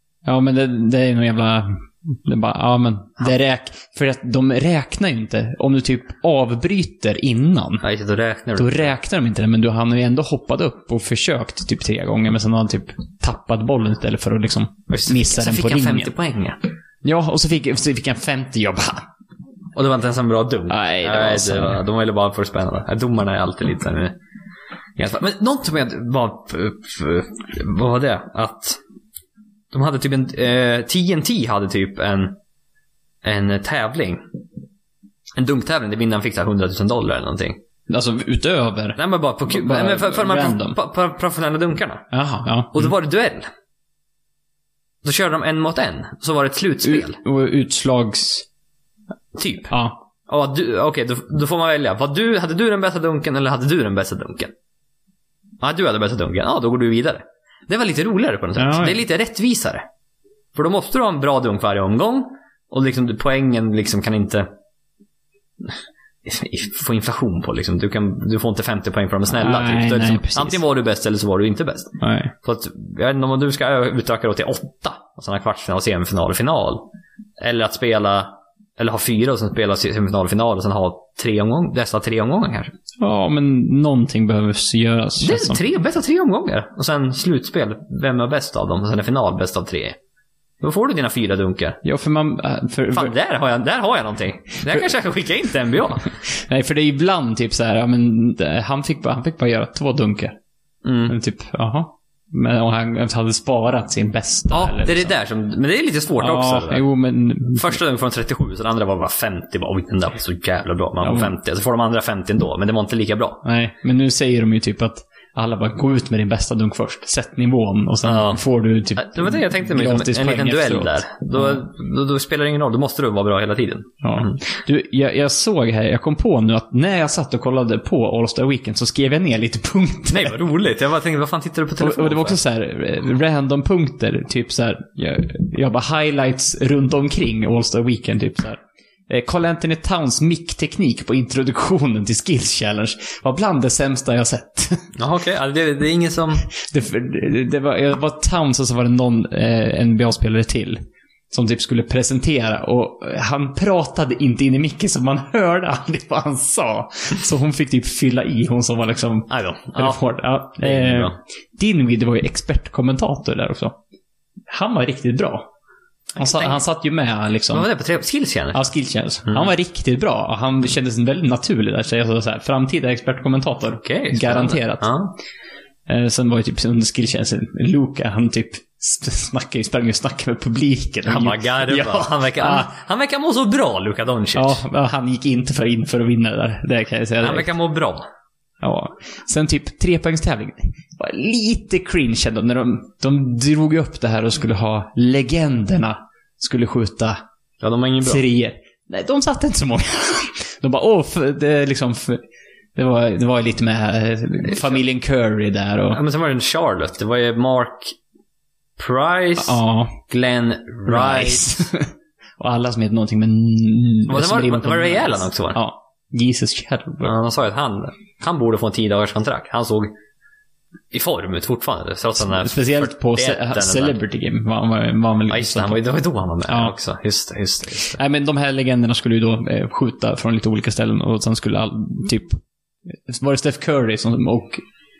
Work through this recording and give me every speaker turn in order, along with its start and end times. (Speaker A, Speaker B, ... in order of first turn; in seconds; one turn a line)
Speaker A: 0.2-7.8
Speaker B: 7.8-8.9
Speaker A: 8.6-16.1
Speaker B: 14.9-16.6
Speaker A: 17.0-19.0
Speaker B: 19.7-24.2
Speaker A: 20.7-21.8
Speaker B: 24.9-28.8
Speaker B: 29.7-32.4
Speaker B: 33.2-34.2
Speaker B: 35.4-37.6
Speaker A: 37.9-40.8
Speaker B: 39.0-42.1
Speaker A: 42.1-42.9
Speaker B: 42.7-43.5
Speaker B: 45.0-47.2
Speaker A: 46.8-48.5
Speaker B: 49.3-49.7
Speaker A: 49.7-50.0
Speaker B: 50.3-54.5
Speaker B: 55.6-59.8
Speaker A: 58.5-59.0
Speaker B: 60.5-64.5
Speaker B: 65.6-76.8
Speaker A: 69.3-70.6
Speaker A: 72.0-72.3
Speaker B: 77.4-82.7
Speaker A: 83.0-85.6
Speaker B: 85.2-90.0
Speaker B: 90.6-91.8
Speaker A: 91.8-93.1
Speaker B: 92.9-96.1
Speaker A: 96.3-100.4
Speaker B: 100.8-101.1
Speaker A: 101.0-105.2
Speaker B: 104.5-106.8
Speaker A: 106.2-107.8
Speaker B: 107.5-113.4
Speaker A: 111.0-111.3
Speaker A: 113.4-121.6
Speaker B: 118.0-118.4
Speaker B: 119.0-124.4
Speaker A: 124.0-130.4
Speaker B: 130.1-132.4
Speaker A: 131.8-144.9
Speaker B: 144.9-146.4
Speaker A: 146.5-150.8
Speaker A: 151.3-163.8
Speaker B: 159.3-160.0
Speaker B: 160.6-161.2
Speaker A: 164.5-165.5
Speaker B: 166.2-166.6
Speaker A: 166.2-167.7
Speaker B: 167.5-168.7
Speaker A: 168.5-174.9
Speaker B: 169.2-169.5
Speaker B: 173.8-175.1
Speaker A: 175.9-182.7
Speaker B: 181.1-184.6
Speaker A: 184.3-187.5
Speaker B: 187.2-188.1
Speaker A: 188.6-197.2
Speaker B: 197.6-198.2
Speaker A: 198.0-202.2
Speaker A: 202.8-206.0
Speaker B: 205.9-207.9
Speaker B: 208.8-211.6
Speaker A: 209.4-210.0
Speaker A: 210.8-217.1
Speaker B: 214.1-215.6
Speaker B: 217.0-219.9
Speaker B: 220.9-224.0
Speaker A: 222.2-225.8
Speaker B: 225.3-228.0
Speaker A: 226.5-226.7
Speaker A: 227.9-232.4
Speaker A: 233.1-234.6